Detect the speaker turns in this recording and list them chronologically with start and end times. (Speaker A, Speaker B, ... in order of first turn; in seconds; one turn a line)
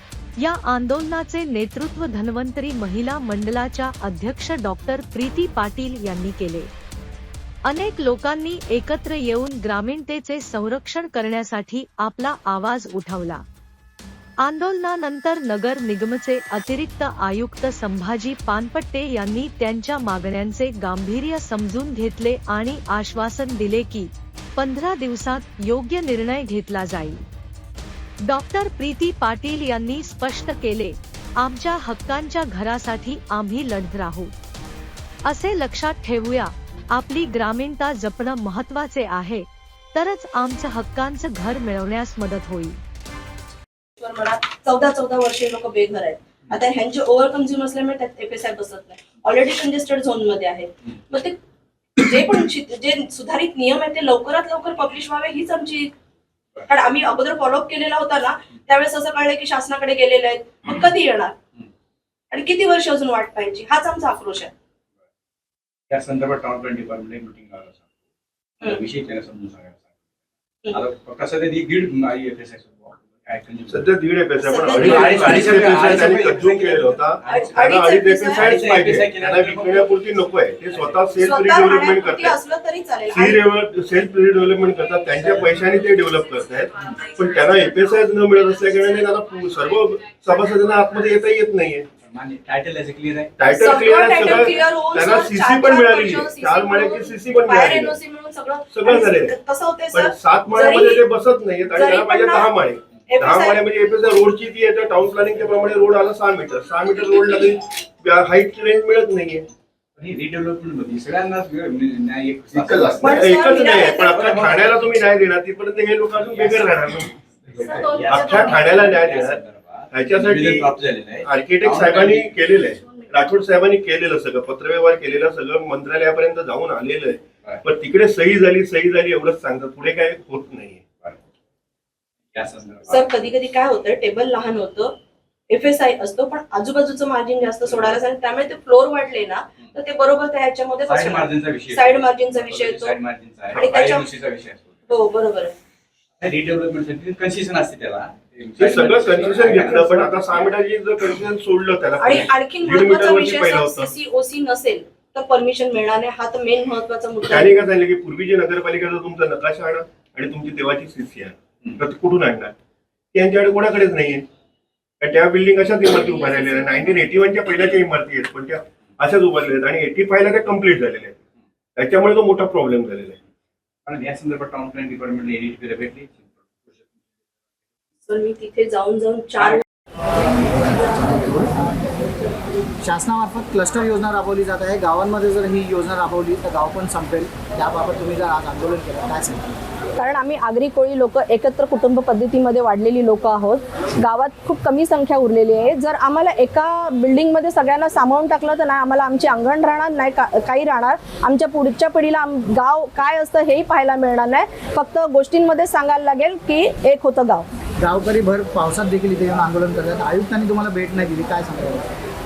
Speaker A: 0.4-6.7
Speaker A: 7.7-13.4
Speaker A: 14.4-27.2
Speaker A: 28.3-34.3
Speaker A: 35.3-42.8
Speaker B: 44.0-51.4
Speaker B: 52.0-55.9
Speaker B: 56.7-61.4
Speaker B: 62.3-64.5
Speaker C: 65.9-67.8
Speaker C: 68.6-69.9
Speaker C: 70.7-73.9
Speaker D: 73.7-82.4
Speaker B: 74.4-75.3
Speaker C: 74.7-77.6
Speaker B: 77.3-78.5
Speaker C: 78.3-80.0
Speaker C: 80.7-81.1
Speaker B: 81.2-83.4
Speaker D: 83.1-91.9
Speaker C: 85.2-85.9
Speaker C: 92.0-93.4
Speaker D: 93.4-98.0
Speaker B: 93.4-101.1
Speaker D: 98.7-99.4
Speaker D: 99.9-109.5
Speaker B: 101.7-102.5
Speaker B: 103.1-103.7
Speaker C: 105.0-105.7
Speaker C: 110.0-115.2
Speaker D: 112.5-119.4
Speaker B: 113.0-114.2
Speaker C: 116.2-122.5
Speaker D: 119.9-130.8
Speaker C: 132.3-133.1
Speaker B: 132.9-134.9
Speaker B: 135.5-143.0
Speaker C: 140.9-144.8
Speaker B: 143.5-144.1
Speaker B: 144.9-145.6
Speaker C: 146.2-150.6
Speaker D: 148.6-153.9
Speaker B: 152.0-157.6
Speaker D: 157.3-162.5
Speaker D: 163.1-164.2
Speaker D: 165.0-171.2
Speaker B: 165.9-166.9
Speaker D: 171.8-173.2
Speaker C: 173.9-176.9
Speaker B: 178.1-179.6
Speaker E: 180.8-181.5
Speaker E: 182.8-189.5
Speaker F: 190.0-207.4
Speaker E: 207.8-211.9